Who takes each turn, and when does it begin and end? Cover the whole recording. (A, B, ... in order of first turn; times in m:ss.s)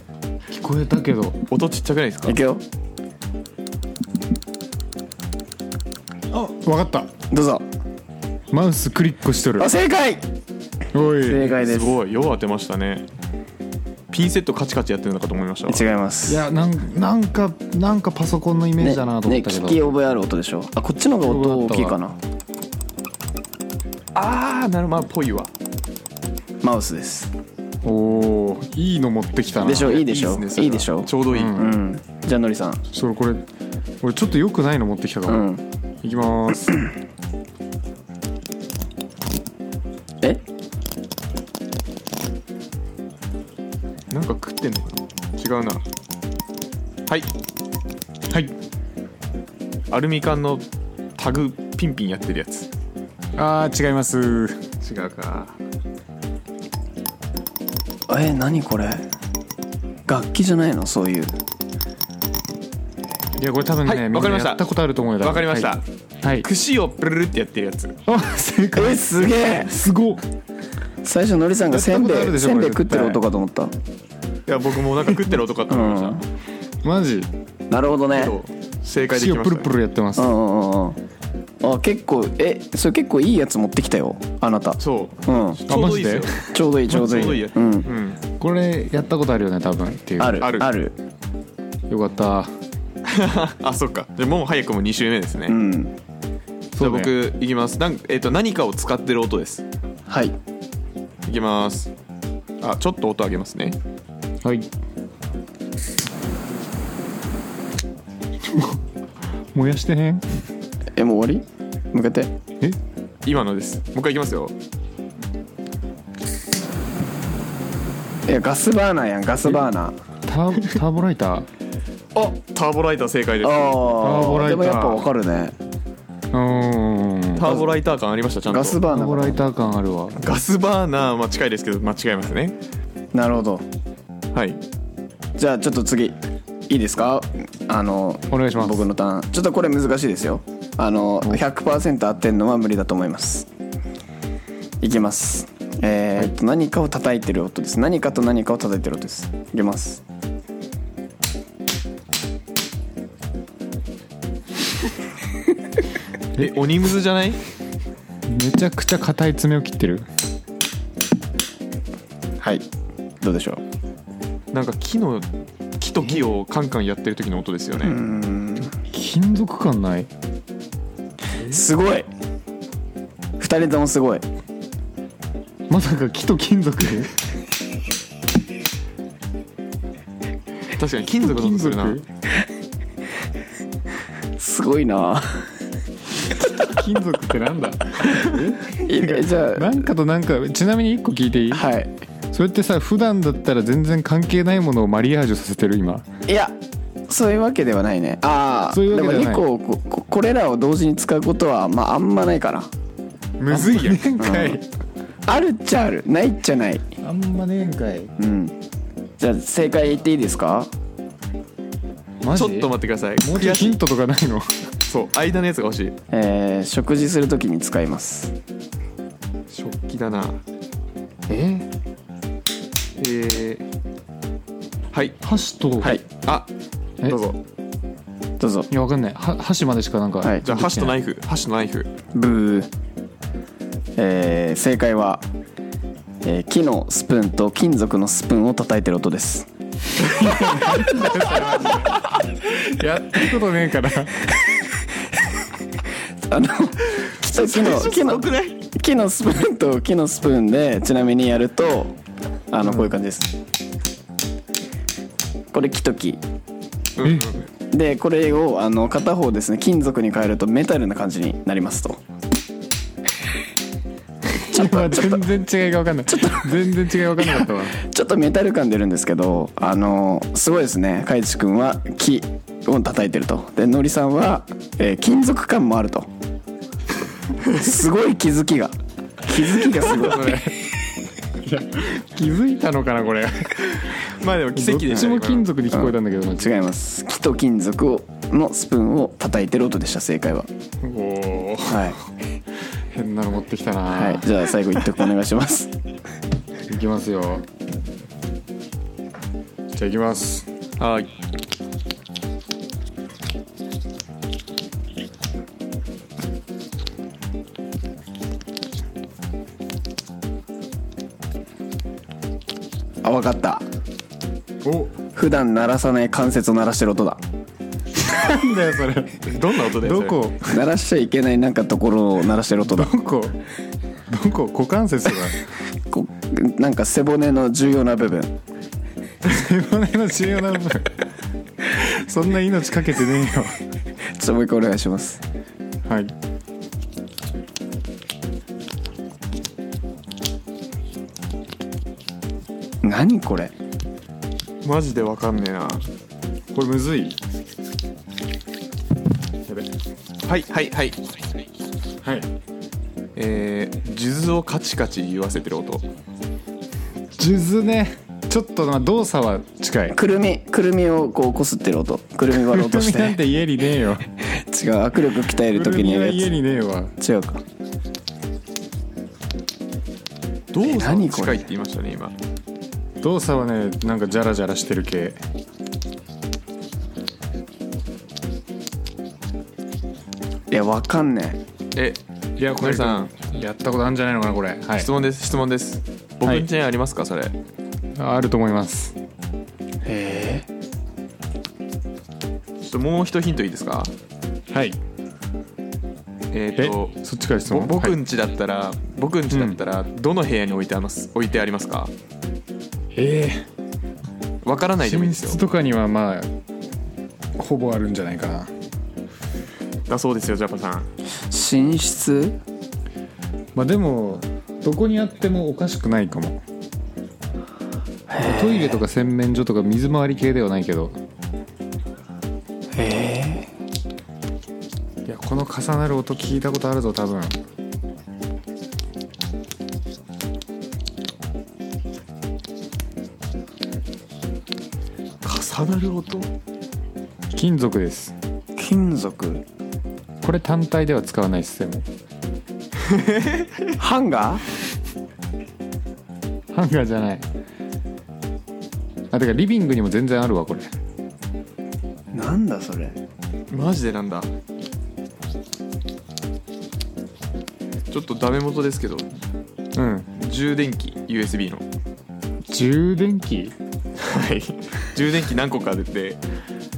0:00.5-0:01.4 A
0:01.5-0:02.4 B
0:02.3-0:02.6 C
0:06.3-0:07.1 A
0:07.3-0:07.6 C
0:08.5-0:09.7 A
0:09.6-0:10.2 C
0:10.9-0:11.5 A
0:11.2-0:12.0 C
0:11.5-0:13.1 B
0:14.1-0:15.8 B
0:15.7-0:16.4 C
0:16.3-0:19.8 A
0:18.8-0:22.2 C
0:21.2-0:22.0 A
0:24.2-0:25.5 B
0:26.6-0:27.3 C
0:27.8-0:30.0 A
0:29.6-0:32.8 C
0:29.7-0:31.6 B
0:31.3-0:31.8 A
0:32.9-0:33.4 A
0:34.0-0:35.5 A
0:35.3-0:35.6 C
0:36.0-0:36.9 A
0:44.1-0:45.8 B
0:49.9-0:50.6 B
0:51.2-0:52.7 B
0:53.4-0:54.6 A
0:54.8-0:55.6 B
0:58.1-0:59.1 C
1:00.1-1:01.3 C
1:03.4-1:06.5 A
1:03.8-1:04.7 B
1:05.2-1:05.8 B
1:06.4-1:08.0 B
1:08.1-1:10.2 A
1:08.7-1:09.7 C
1:11.0-1:13.7 C
1:11.7-1:13.2 A
1:14.5-1:16.2 B
1:15.7-1:16.2 C
1:16.8-1:17.3 A
1:17.7-1:18.4 C
1:18.1-1:19.7 B
1:19.1-1:20.3 A
1:20.2-1:21.0 C
1:21.6-1:25.6 C
1:24.8-1:28.2 B
1:25.7-1:26.4 A
1:26.5-1:27.9 C
1:28.4-1:30.5 A
1:30.2-1:31.0 C
1:30.4-1:30.7 B
1:31.9-1:32.5 A
1:33.1-1:35.6 B
1:35.5-1:35.9 C
1:36.8-1:37.1 A
1:36.8-1:39.6 B
1:40.1-1:40.4 C
1:41.3-1:41.9 B
1:42.6-1:43.8 B
1:44.4-1:44.7 A
1:48.4-1:48.8 A
1:49.5-1:50.2 A
1:51.0-1:52.3 C
1:53.2-1:54.5 B
1:58.3-2:00.0 C
2:00.3-2:01.5 A
2:02.2-2:03.8 B
2:03.4-2:05.6 C
2:04.0-2:05.0 A
2:06.3-2:07.5 A
2:07.4-2:08.8 B
2:07.4-2:07.7 C
2:08.5-2:09.5 C
2:08.9-2:10.2 A
2:10.2-2:12.6 B
2:13.1-2:13.6 C
2:14.3-2:14.6 B
2:15.4-2:16.2 C
2:16.7-2:23.5 C
2:18.3-2:18.9 A
2:24.8-2:30.0 C
2:36.4-2:37.4 B
2:38.3-2:40.1 A
2:43.2-2:43.6 C
2:44.5-2:45.2 B
2:45.8-2:48.0 B
2:47.8-2:48.7 C
2:48.9-2:50.1 A
2:51.5-2:52.1 C
2:53.4-2:54.2 C
2:55.7-2:57.2 A
3:00.8-3:02.0 B
3:01.2-3:02.0 A
3:04.4-3:05.5 C
3:06.6-3:11.7 A
3:08.7-3:09.8 C
3:11.5-3:11.9 C
3:12.3-3:16.1 A
3:16.3-3:16.6 C
3:17.1-3:22.7 C
3:18.7-3:19.4 A
3:23.4-3:24.6 A
3:23.5-3:24.0 B
3:24.2-3:24.6 C
3:25.3-3:26.8 C
3:27.0-3:28.1 A
3:28.2-3:28.6 C
3:29.2-3:30.7 C
3:32.2-3:32.7 A
3:32.3-3:33.8 B
3:33.2-3:34.7 A
3:34.9-3:36.0 B
3:36.1-3:38.3 C
3:39.5-3:40.4 B
3:43.0-3:43.7 B
3:44.9-3:45.2 B
3:45.2-3:46.0 A
3:45.8-3:46.5 B
3:47.0-3:47.4 B
3:48.4-3:48.7 C
3:48.7-3:51.0 A
3:50.4-3:51.9 B
3:52.1-3:52.7 C
3:54.0-3:55.2 C
3:56.2-3:59.5 C
4:00.0-4:04.3 A
4:06.3-4:12.0 C
4:07.3-4:08.6 B
4:12.5-4:13.3 C
4:12.6-4:12.9 A
4:15.5-4:16.2 C
4:17.0-4:17.4 B
4:17.0-4:17.3 A
4:17.7-4:22.0 C
4:24.3-4:27.8 A
4:24.4-4:25.3 C
4:26.1-4:26.5 C
4:27.2-4:36.1 C
4:37.5-4:40.4 C
4:39.7-4:40.7 A
4:41.4-4:43.9 A
4:44.1-4:45.5 B
4:44.5-4:46.5 A
4:45.7-4:50.5 C
4:50.8-4:52.0 A
4:51.7-4:52.0 C
4:52.9-4:54.3 A
4:53.9-4:55.7 C
4:56.7-4:57.4 A
4:59.7-5:00.5 A
5:00.8-5:01.1 B
5:13.0-5:13.6 C
5:14.6-5:14.9 A
5:15.2-5:17.2 C
5:18.0-5:20.6 A
5:19.3-5:20.2 B
5:20.5-5:22.9 C
5:22.6-5:23.4 A
5:24.1-5:25.4 A
5:25.9-5:28.3 C
5:29.2-5:31.0 A
5:31.6-5:33.6 A
5:34.2-5:35.2 C
5:35.8-5:36.1 A
5:42.8-5:43.5 C
5:44.6-5:45.9 B
5:46.5-5:47.2 A
5:50.3-5:51.0 B
5:52.0-5:52.3 A
5:53.2-5:55.9 B
5:57.2-6:00.0 A
5:59.9-6:03.2 C
6:02.3-6:04.1 A
6:04.3-6:06.3 C
6:05.5-6:06.9 A
6:07.0-6:07.4 C
6:10.5-6:12.2 B
6:10.6-6:11.4 C
6:13.0-6:15.2 A
6:20.5-6:21.4 C
6:21.8-6:22.0 B
6:22.4-6:24.9 A
6:22.6-6:23.1 B
6:24.8-6:27.4 B
6:28.0-6:29.0 A
6:29.8-6:30.5 C
6:32.6-6:33.9 B
6:34.5-6:34.8 A
6:36.3-6:41.9 B
6:36.6-6:38.0 A
6:39.3-6:39.6 A
6:42.9-6:43.4 A
6:44.4-6:45.4 B
6:44.8-6:46.3 A
6:47.4-6:48.5 A
6:49.9-6:50.9 B
6:51.3-6:52.4 C
6:53.6-6:56.4 A
6:58.1-6:58.8 C
6:58.2-7:01.0 A
7:02.7-7:03.5 C
7:05.0-7:07.3 A
7:15.2-7:16.3 B
7:17.3-7:18.2 A
7:18.6-7:19.4 C
7:20.2-7:21.9 A
7:22.9-7:23.5 B
7:23.8-7:24.4 C
7:26.5-7:27.2 A
7:29.1-7:30.7 A
7:32.1-7:33.0 C
7:33.5-7:34.3 B
7:37.9-7:39.1 B
7:39.8-7:40.1 A
7:40.2-7:41.6 B
7:42.5-7:43.6 A
7:44.0-7:46.2 B